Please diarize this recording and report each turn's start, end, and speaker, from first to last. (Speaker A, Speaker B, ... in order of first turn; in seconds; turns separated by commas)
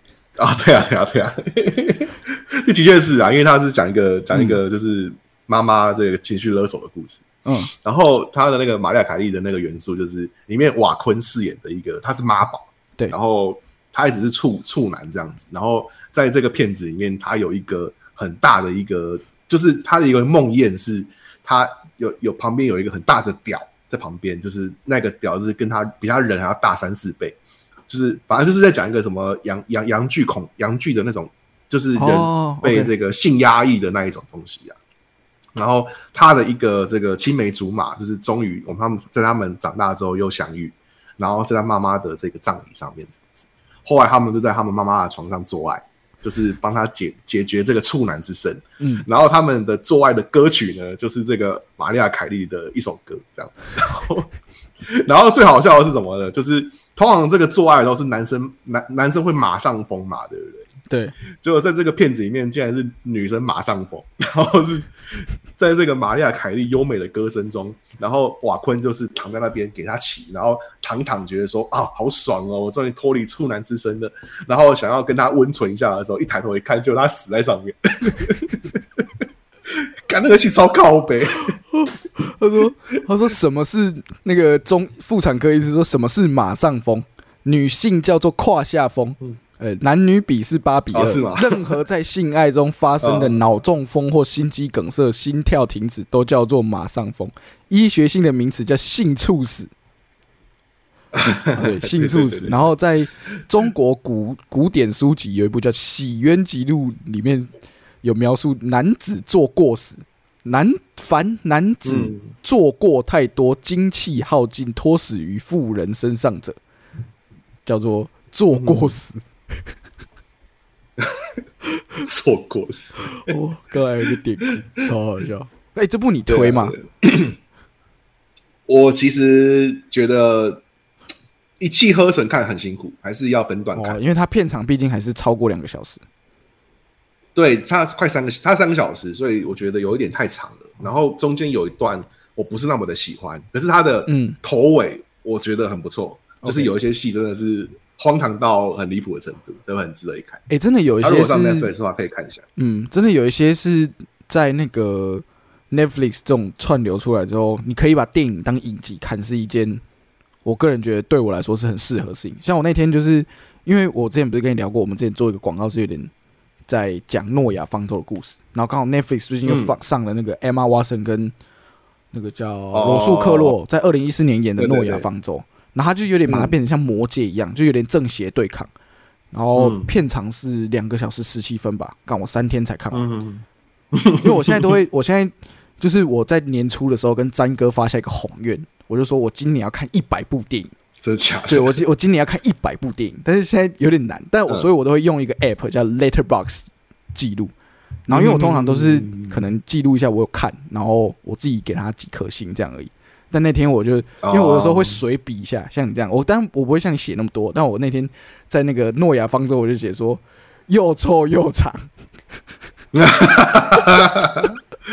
Speaker A: 0.4-27.4, Speaker B: 4.3-4.6, Speaker B: 7.5-7.7, Speaker A: 27.9-34.8, Speaker B: 32.0-32.9, Speaker A: 35.5-60.7, Speaker B: 48.8-49.1, Speaker B: 60.9-61.1, Speaker A: 61.4-79.1, Speaker A: 79.7-81.6, Speaker B: 81.7-99.7, Speaker A: 90.9-91.8, Speaker A: 93.0-93.4, Speaker A: 101.1-102.7, Speaker B: 101.5-107.5, Speaker B: 108.0-116.6, Speaker A: 111.8-112.3, Speaker B: 117.6-119.2, Speaker A: 118.5-118.9, Speaker A: 121.0-121.4, Speaker A: 122.0-123.3, Speaker B: 123.1-126.8, Speaker A: 126.3-127.4, Speaker A: 128.7-130.6, Speaker A: 131.6-134.0, Speaker B: 133.8-136.0, Speaker A: 137.3-150.4, Speaker B: 144.1-144.4, Speaker B: 146.4-146.7, Speaker B: 150.5-151.7, Speaker A: 151.0-152.5, Speaker B: 152.6-159.8, Speaker B: 160.4-166.1, Speaker B: 166.7-171.3, Speaker A: 169.5-169.8, Speaker B: 172.1-178.7, Speaker A: 172.7-173.6, Speaker A: 174.6-175.1, Speaker A: 176.3-176.5, Speaker B: 179.3-183.1, Speaker A: 179.6-179.9, Speaker A: 182.9-184.8, Speaker B: 184.2-190.7, Speaker A: 191.0-191.8, Speaker B: 191.5-197.5, Speaker B: 198.1-211.9, Speaker A: 198.1-199.4, Speaker A: 204.2-205.0, Speaker A: 212.9-214.6